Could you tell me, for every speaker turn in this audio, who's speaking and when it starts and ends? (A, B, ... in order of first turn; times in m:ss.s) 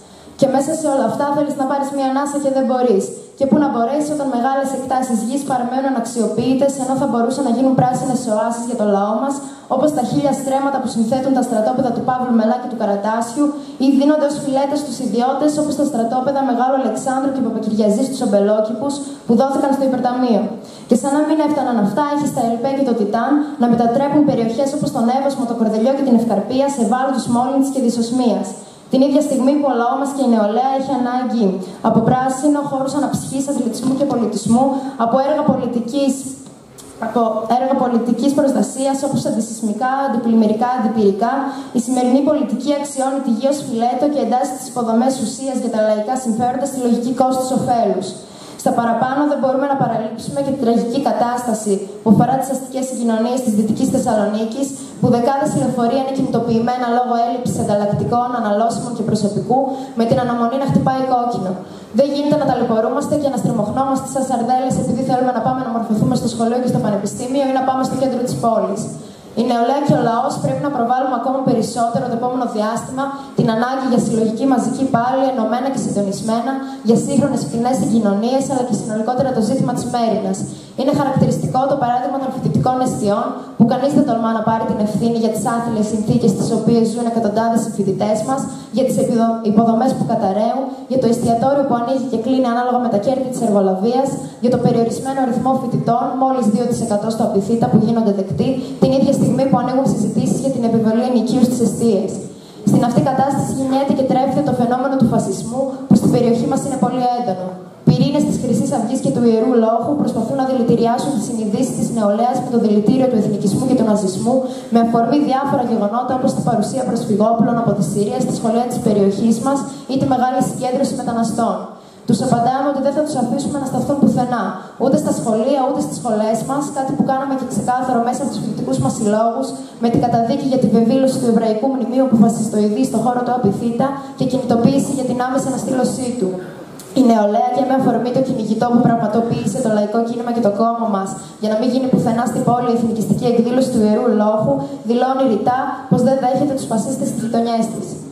0:00.4-0:36.3 A
0:37.0-2:16.3 A
2:16.9-2:28.0 A